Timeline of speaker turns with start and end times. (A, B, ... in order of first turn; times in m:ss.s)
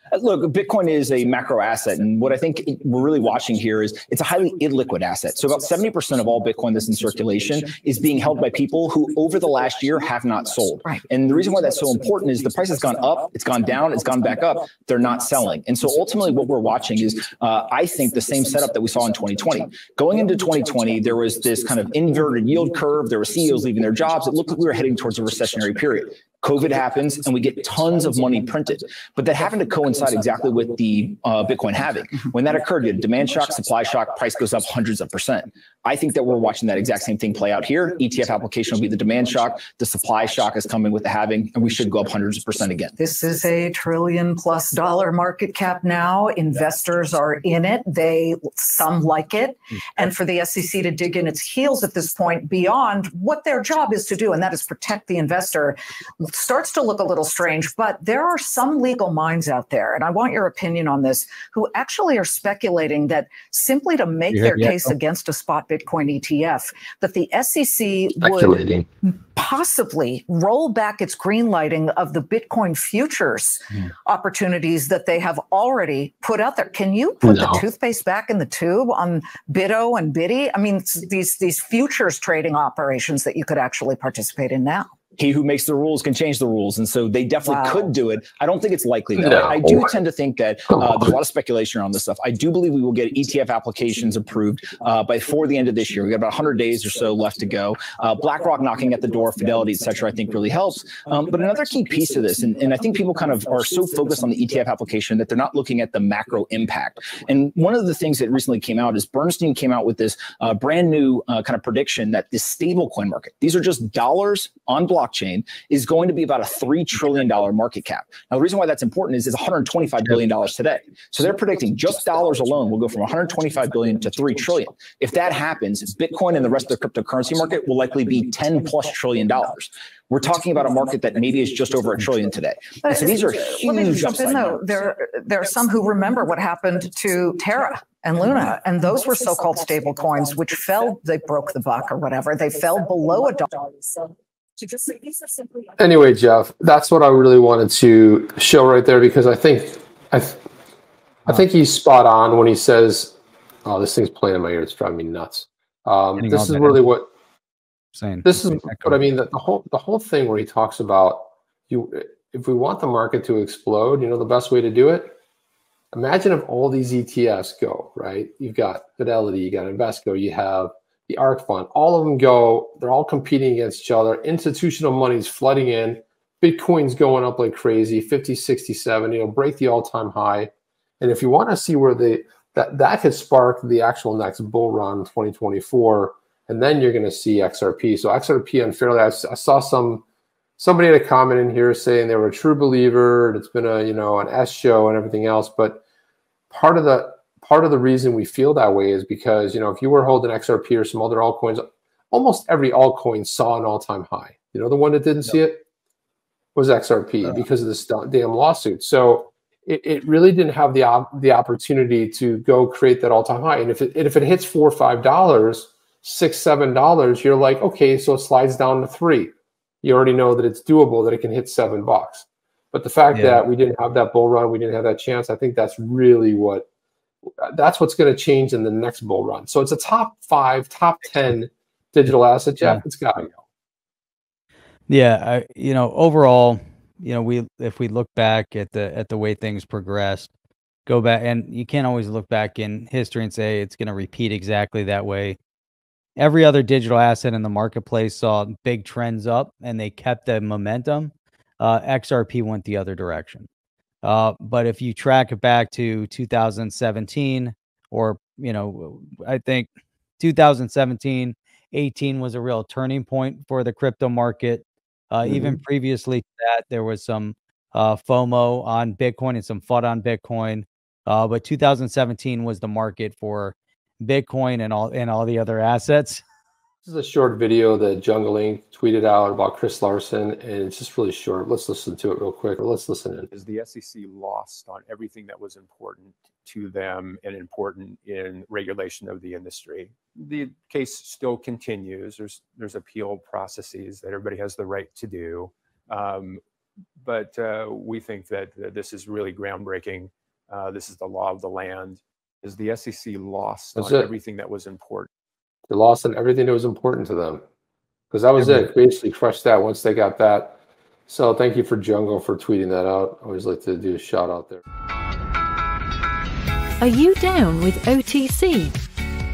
0:00.1-0:42.9 A
0:43.0-1:24.9 B
1:04.3-1:04.9 C
1:08.2-1:08.8 D
1:17.2-1:17.6 D
1:25.2-2:14.7 A
1:27.4-1:27.8 B
1:29.2-1:29.6 D
2:12.8-2:25.1 B
2:25.8-2:30.4 D
2:31.2-2:37.1 D
2:36.2-2:36.8 C
2:37.9-2:39.0 C
2:38.2-2:45.1 D
2:45.9-3:10.0 D
3:10.6-3:15.8 D
3:16.5-3:25.6 D
3:26.5-3:46.7 D
3:43.1-3:43.4 C
3:47.4-3:53.3 D
3:54.9-4:00.3 C
4:00.8-4:05.4 C
4:06.2-4:13.5 C
4:14.0-4:36.2 C
4:36.8-4:43.3 D
4:43.3-4:56.4 E
4:57.0-5:05.1 E
5:03.8-5:04.1 D
5:05.7-5:07.4 D
5:08.1-5:14.6 D
5:16.8-5:18.8 F